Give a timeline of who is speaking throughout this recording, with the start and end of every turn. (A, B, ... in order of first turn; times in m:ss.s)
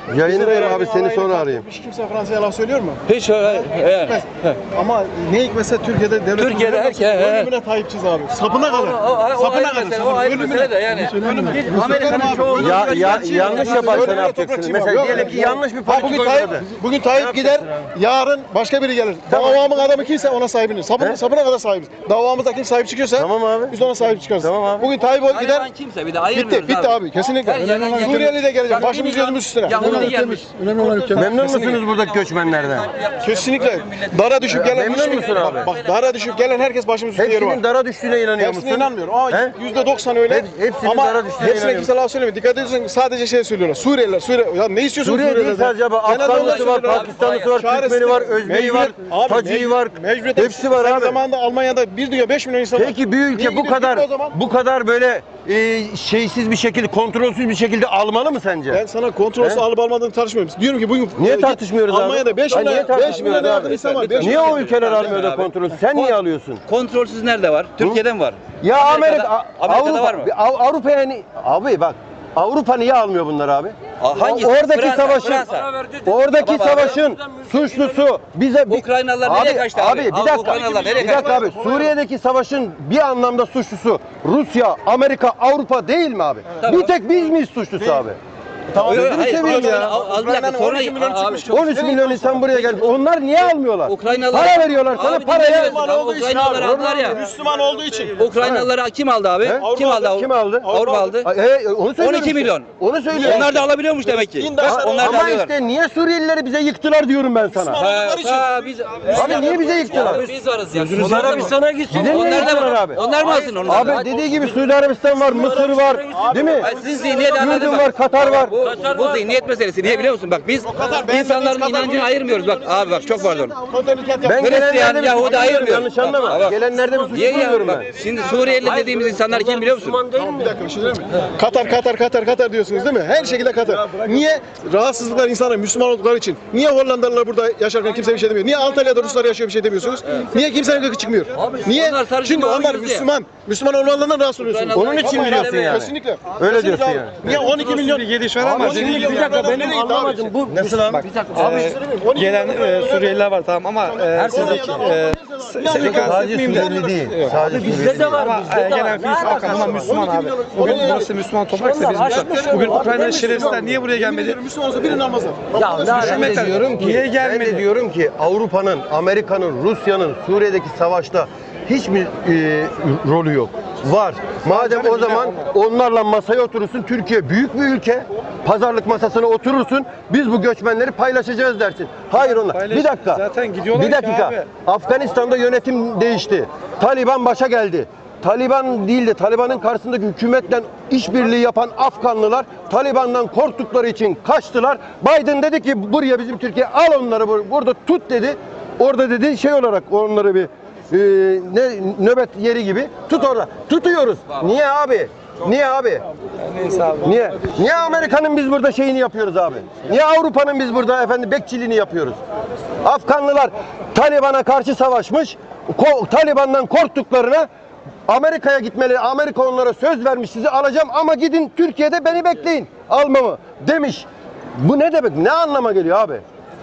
0:00.1-0:01.6 A
0:00.2-0:03.0 B
0:03.1-0:04.6 C
0:03.6-0:04.2 B
0:04.7-0:25.7 B
0:06.4-0:07.5 C
0:08.5-0:14.3 C
0:12.5-0:17.7 A
0:19.3-0:19.7 A
0:23.1-0:23.8 A
0:24.4-0:24.9 A
0:25.2-0:36.5 C
0:26.3-0:31.8 B
0:31.1-0:32.9 A
0:33.2-0:37.6 B
0:34.5-0:35.7 A
0:37.1-0:39.5 A
0:38.4-0:54.3 B
0:40.3-0:41.9 A
0:45.0-0:51.2 A
0:46.1-0:47.6 C
0:52.7-0:58.8 A
0:58.7-1:04.6 B
1:01.2-1:06.6 A
1:02.5-1:10.3 C
1:08.6-1:15.5 A
1:14.0-1:15.7 C
1:15.0-1:18.1 D
1:16.0-1:28.2 A
1:16.4-1:17.0 C
1:18.7-1:21.5 C
1:20.3-1:21.9 B
1:26.6-1:26.9 C
1:28.7-1:32.8 B
1:28.8-1:29.9 A
1:28.8-1:32.0 C
1:31.5-1:35.9 A
1:33.9-1:37.2 C
1:35.2-1:38.2 B
1:36.4-1:37.2 A
1:38.2-1:41.3 C
1:38.4-1:38.7 A
1:39.4-1:43.6 A
1:39.6-1:41.2 B
1:42.0-1:45.5 C
1:43.1-1:45.4 B
1:44.6-1:47.8 A
1:47.6-1:50.2 B
1:47.7-1:54.0 C
1:49.1-1:50.3 A
1:50.7-1:56.7 D
1:51.0-1:51.4 A
1:51.9-1:53.0 A
1:53.6-1:56.7 A
1:56.2-1:57.7 B
1:56.6-2:03.6 C
1:57.3-1:58.5 A
1:58.2-1:59.4 D
2:00.6-2:06.0 B
2:04.2-2:07.9 A
2:04.4-2:06.6 C
2:06.0-2:10.6 D
2:07.1-2:10.0 C
2:10.2-2:30.3 B
2:21.4-2:21.7 D
2:21.6-2:23.1 C
2:24.4-2:25.8 C
2:24.7-2:27.5 A
2:27.5-2:29.6 E
2:28.4-2:31.8 D
2:30.5-2:31.1 A
2:31.3-2:37.0 B
2:31.3-2:44.4 E
2:34.2-2:34.8 D
2:35.7-2:38.2 A
2:37.4-2:39.9 D
2:39.2-2:41.1 B
2:40.6-2:43.6 D
2:41.7-2:46.5 B
2:45.5-2:46.5 D
2:45.9-2:47.6 E
2:45.9-3:26.0 A
2:54.5-2:55.3 B
3:02.2-3:04.5 E
3:26.5-3:27.1 E
3:27.0-3:32.2 A
3:32.8-3:37.5 A
3:38.1-3:46.2 A